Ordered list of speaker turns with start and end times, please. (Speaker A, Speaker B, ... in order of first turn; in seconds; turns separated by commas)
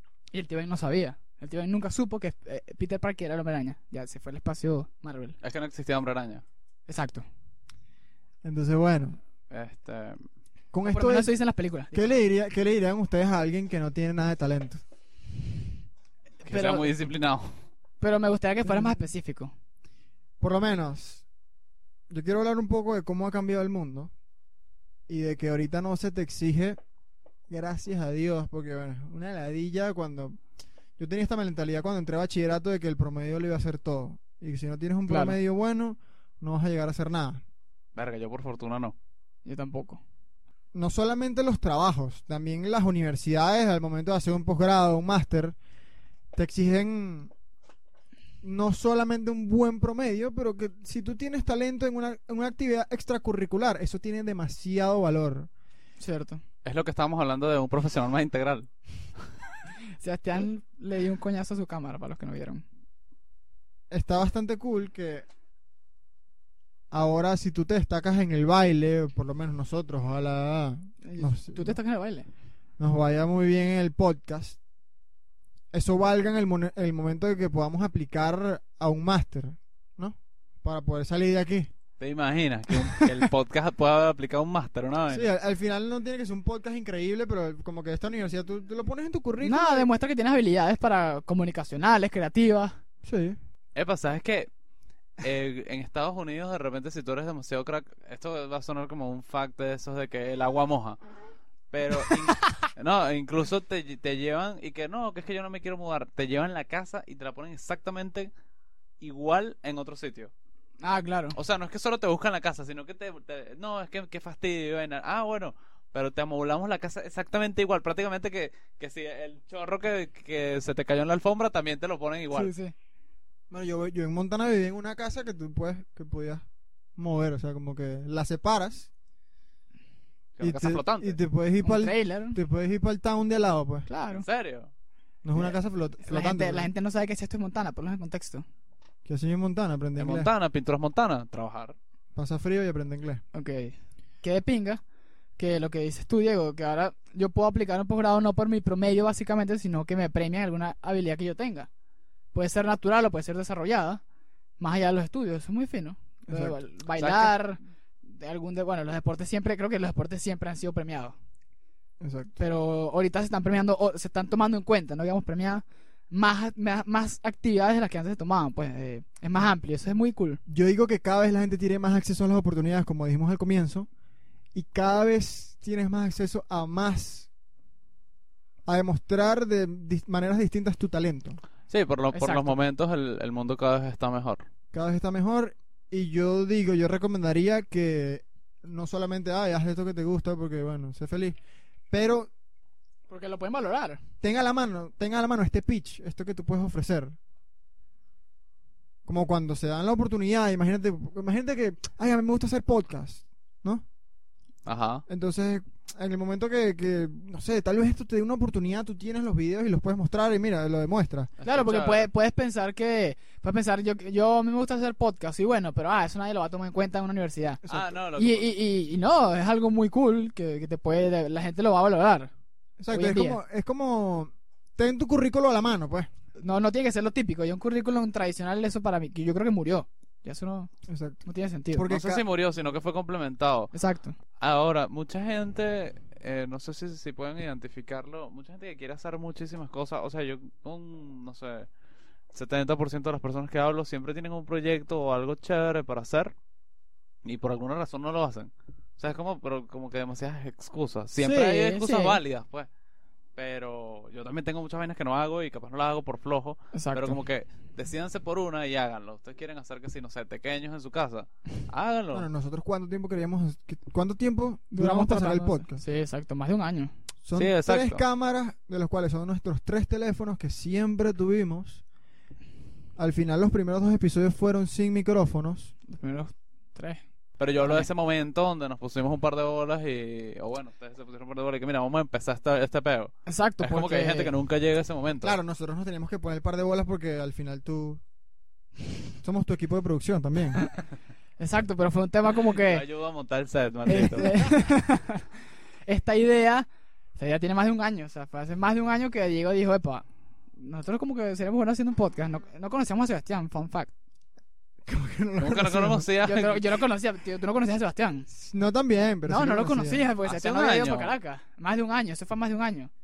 Speaker A: 0.3-5.4, Speaker B: 5.4-6.4, Speaker A: 6.9-7.2, Speaker C: 8.4-9.2, Speaker B: 9.5-10.2, Speaker C: 10.7-11.3, Speaker A: 10.9-12.1, Speaker C: 11.9-14.8, Speaker A: 16.4-16.9, Speaker B: 16.5-17.5, Speaker A: 18.0-19.5, Speaker C: 18.6-18.9, Speaker C: 20.4-21.2, Speaker C: 22.1-24.1, Speaker C: 25.1-26.8, Speaker C: 27.5-30.4, Speaker C: 31.0-37.4, Speaker A: 35.1-35.4, Speaker B: 38.0-39.0, Speaker A: 39.5-40.0, Speaker C: 40.7-45.6, Speaker C: 46.3-47.3, Speaker C: 48.4-55.5, Speaker A: 56.0-56.4, Speaker B: 56.6-58.7, Speaker A: 60.0-62.6, Speaker C: 63.9-65.3, Speaker C: 66.9-71.8, Speaker A: 71.0-72.3, Speaker C: 72.8-74.6, Speaker C: 75.7-81.7, Speaker B: 82.0-85.3, Speaker A: 82.8-83.1, Speaker C: 85.1-89.9, Speaker A: 89.4-92.8, Speaker C: 93.0-93.4, Speaker B: 93.8-94.5, Speaker B: 95.2-101.0, Speaker B: 101.7-108.3, Speaker A: 102.1-102.5, Speaker B: 109.0-110.3, Speaker A: 110.8-111.4, Speaker B: 111.3-122.5, Speaker A: 122.3-122.7, Speaker C: 123.5-126.5, Speaker C: 127.0-128.9, Speaker B: 130.4-131.2, Speaker C: 130.4-133.9, Speaker A: 131.6-132.4, Speaker A: 133.9-134.2, Speaker B: 134.1-134.7, Speaker C: 135.2-136.7, Speaker A: 135.4-138.4, Speaker C: 139.1-140.3, Speaker B: 140.0-141.8, Speaker C: 142.2-143.2, Speaker A: 143.3-144.8, Speaker A: 145.4-151.7, Speaker A: 152.3-154.0, Speaker A: 154.6-161.2, Speaker C: 156.3-156.6, Speaker B: 157.0-157.3, Speaker C: 162.0-162.4, Speaker A: 162.4-170.4, Speaker C: 170.5-173.9, Speaker C: 174.5-177.3, Speaker C: 178.7-181.4, Speaker B: 181.7-184.5, Speaker A: 182.1-182.7, Speaker C: 184.7-191.4, Speaker C: 191.9-192.3, Speaker A: 193.1-194.0, Speaker C: 194.2-197.2, Speaker C: 199.1-203.8, Speaker B: 204.7-205.0, Speaker C: 205.1-211.3, Speaker B: 211.4-212.1, Speaker A: 211.4-217.6, Speaker C: 217.7-217.9, Speaker B: 217.7-218.5, Speaker A: 218.2-222.3, Speaker C: 222.8-226.1, Speaker A: 222.9-223.4, Speaker A: 226.4-230.7, Speaker C: 230.9-231.2, Speaker A: 231.3-231.9, Speaker C: 231.7-232.2, Speaker B: 231.9-233.7, Speaker A: 233.7-234.2, Speaker B: 234.4-241.7, Speaker B: 242.3-246.3, Speaker B: 247.2-252.7, Speaker A: 251.2-252.2, Speaker B: 253.4-262.3, Speaker A: 256.7-257.2, Speaker C: 262.1-265.8, Speaker A: 264.7-266.9, Speaker C: 267.2-271.8, Speaker B: 267.4-268.0, Speaker C: 273.0-275.7, Speaker A: 275.9-277.0, Speaker B: 277.4-285.4, Speaker A: 277.6-277.9, Speaker A: 283.3-284.3, Speaker C: 285.2-288.0, Speaker C: 289.2-290.6, Speaker A: 291.4-292.9, Speaker B: 292.4-294.5, Speaker A: 293.9-295.3, Speaker A: 295.9-300.1, Speaker A: 300.6-303.9, Speaker C: 304.9-306.1, Speaker B: 305.4-306.8, Speaker A: 306.2-308.3, Speaker C: 308.3-310.1, Speaker A: 309.3-312.9, Speaker B: 310.2-311.1